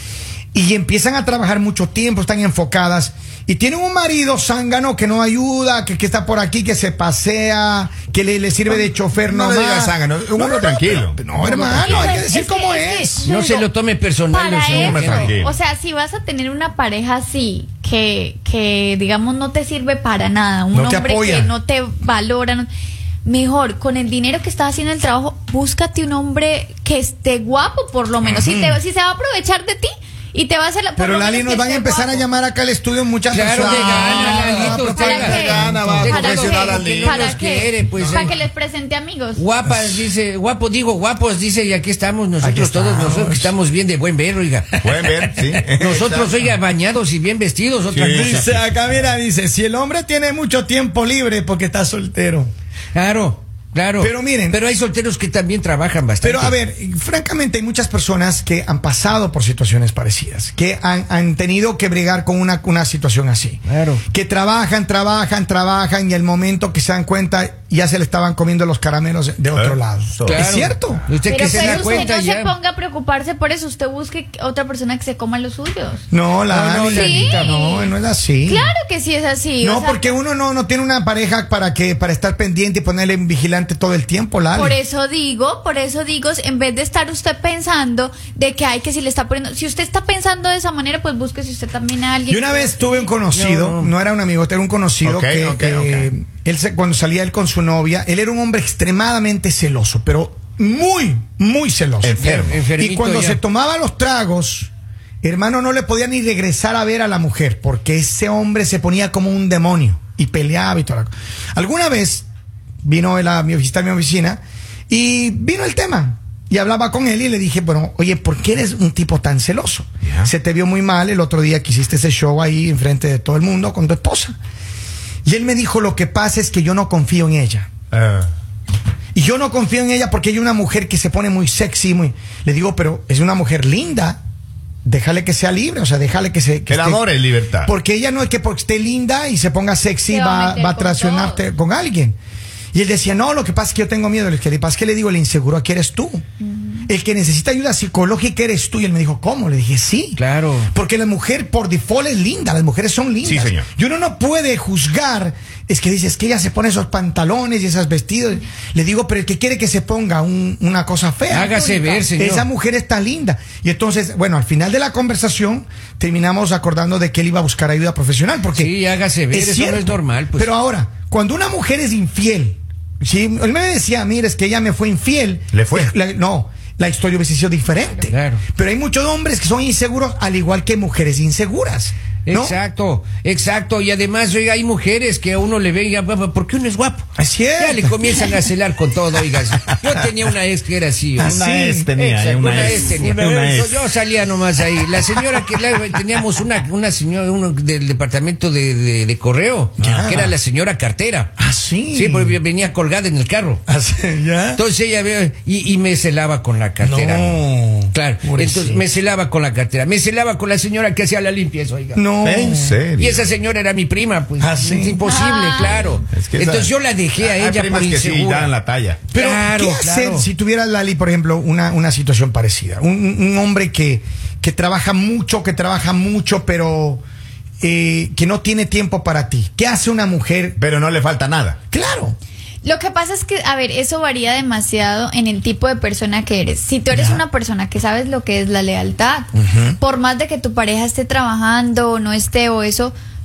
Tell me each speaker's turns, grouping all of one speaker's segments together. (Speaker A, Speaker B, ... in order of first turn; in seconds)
Speaker A: 0.5-13.3, 20.7-21.5, 28.2-28.8, 31.0-36.3, 39.7-40.1, 42.4-43.5, 48.0-52.5, 54.0-54.6, 56.2-72.1, 76.1-78.7, 79.6-84.8, 92.3-104.7, 105.2-112.2, 112.8-124.3, 125.2-127.7, 129.1-134.2, 134.8-137.1, 137.6-142.2, 142.7-146.2, 146.9-168.7, 169.3-182.6, 187.2-188.4, 191.2-191.9, 199.8-200.3, 201.4-202.4, 203.7-204.6, 206.8-208.8, 211.9-212.8, 214.4-215.0, 219.1-227.0, 227.6-230.6, 231.7-232.2, 236.9-237.2, 239.4-239.8
Speaker B: 9.2-12.2, 14.7-15.5, 33.5-34.4, 35.3-38.3, 44.8-46.3, 47.9-48.7, 69.5-70.7, 95.0-96.1, 102.0-102.6, 127.9-128.3, 136.7-137.7, 153.2-153.7, 175.5-175.9, 191.2-193.9, 212.2-213.2, 216.1-219.1, 230.6-231.6
Speaker C: 11.4-13.7, 14.3-22.7, 23.2-32.2, 34.2-39.4, 71.1-76.0, 76.8-77.9, 78.5-80.1, 84.5-93.2, 140.1-141.4, 146.4-146.8, 161.4-162.1, 192.4-192.8, 215.0-216.0, 232.6-242.9
Speaker D: 11.7-12.2, 13.2-15.4, 33.3-38.4, 39.4-44.8, 45.8-48.4, 52.9-56.6, 63.6-64.0, 70.3-72.5, 76.5-77.6, 93.2-93.9, 102.4-103.4, 150.2-150.7, 161.3-162.4, 168.5-170.5, 178.1-178.4, 182.3-187.0, 187.6-191.3, 192.0-201.3, 201.9-203.6, 204.6-207.4, 207.9-212.0, 213.0-218.5, 219.2-220.3